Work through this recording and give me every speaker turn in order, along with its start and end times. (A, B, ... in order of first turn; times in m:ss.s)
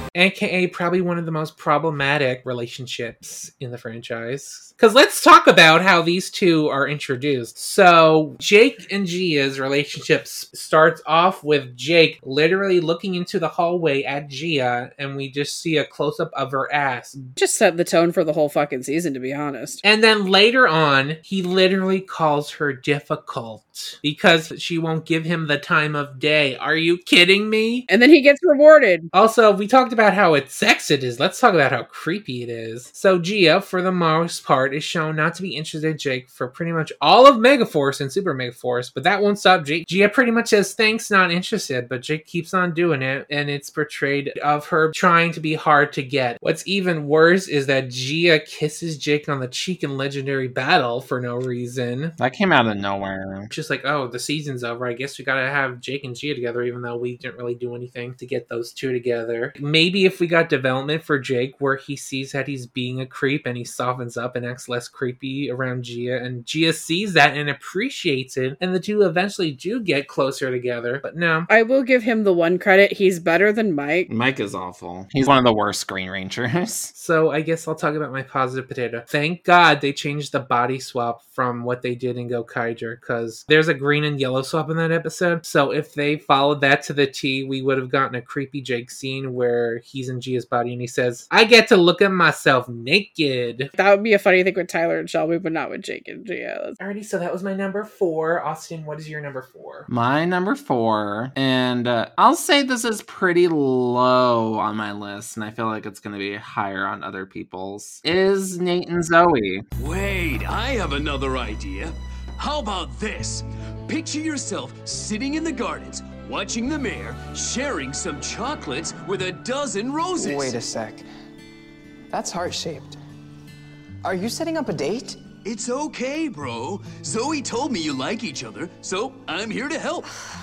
0:00.2-0:17.4 A
0:17.4-0:19.8 B
0:19.8-0:27.9 A
0:27.9-0:29.1 B
0:29.1-0:52.2 A
0:52.2-0:53.5 C
0:53.5-1:11.5 A
1:11.5-1:14.1 B
1:14.1-1:16.9 C
1:16.9-1:33.7 A
1:33.8-1:36.8 B
1:36.8-1:39.9 A
1:39.9-1:49.7 C
1:49.8-2:00.6 D
2:00.2-2:01.1 E
2:02.1-2:03.0 E
2:04.0-2:05.2 E
2:05.4-2:10.1 D